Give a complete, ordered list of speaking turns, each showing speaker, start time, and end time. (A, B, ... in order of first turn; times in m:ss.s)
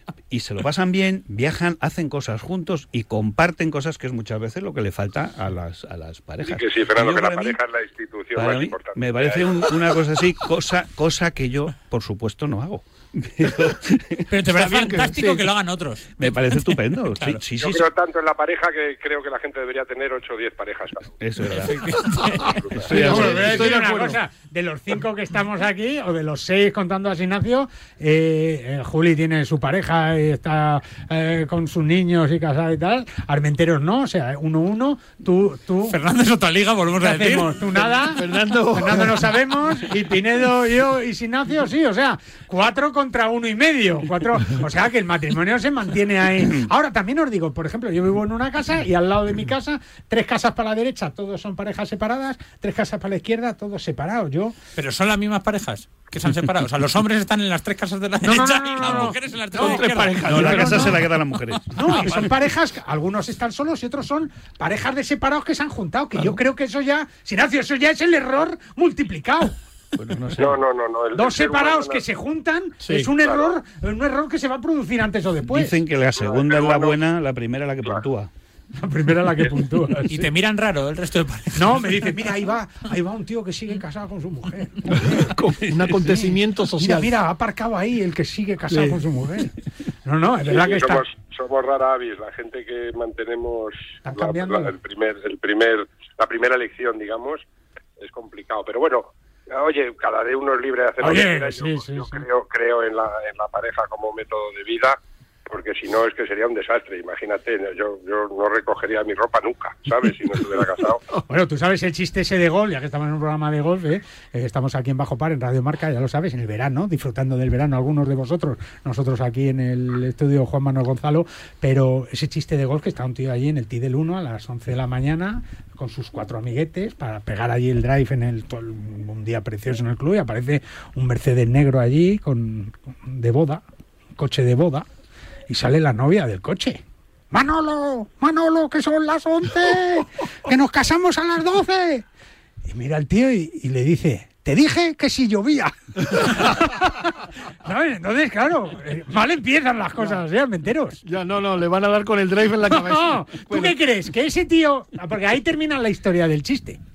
0:00.3-0:07.6 A
0:06.4-0:09.8 B
0:08.4-0:14.3 A
0:14.3-0:17.4 C
0:14.5-0:15.4 D
0:16.2-0:17.9 A
0:17.6-0:21.1 B
0:21.2-0:22.0 A
0:21.6-0:22.6 C
0:22.6-0:22.9 B
0:22.7-0:23.7 A
0:22.8-0:24.2 D
0:22.9-0:36.0 E
0:35.9-0:37.6 C
0:37.0-0:54.6 E
0:38.0-0:39.3 D
0:54.8-1:00.7 C
0:58.2-1:01.0 E
0:59.6-1:00.9 D
1:00.3-1:02.1 A
1:01.7-1:02.3 C
1:01.8-1:09.6 E
1:10.0-1:10.6 A
1:10.4-1:12.0 B
1:11.1-1:15.8 E
1:12.8-1:13.1 D
1:13.2-1:13.5 B
1:15.5-1:18.3 A
1:16.1-1:17.0 B
1:18.8-1:20.3 E
1:20.1-1:22.3 C
1:21.5-1:25.3 E
1:25.0-1:27.1 D
1:26.8-1:29.5 E
1:28.7-1:29.0 D
1:30.0-1:31.0 E
1:30.5-1:37.4 B
1:34.0-1:34.7 E
1:38.0-1:51.0 B
1:41.0-1:42.2 E
1:51.3-2:13.6 E
2:14.2-2:14.9 E
2:15.5-2:22.0 E
2:22.7-2:31.0 E
2:31.0-2:33.8 D
2:32.7-2:36.8 E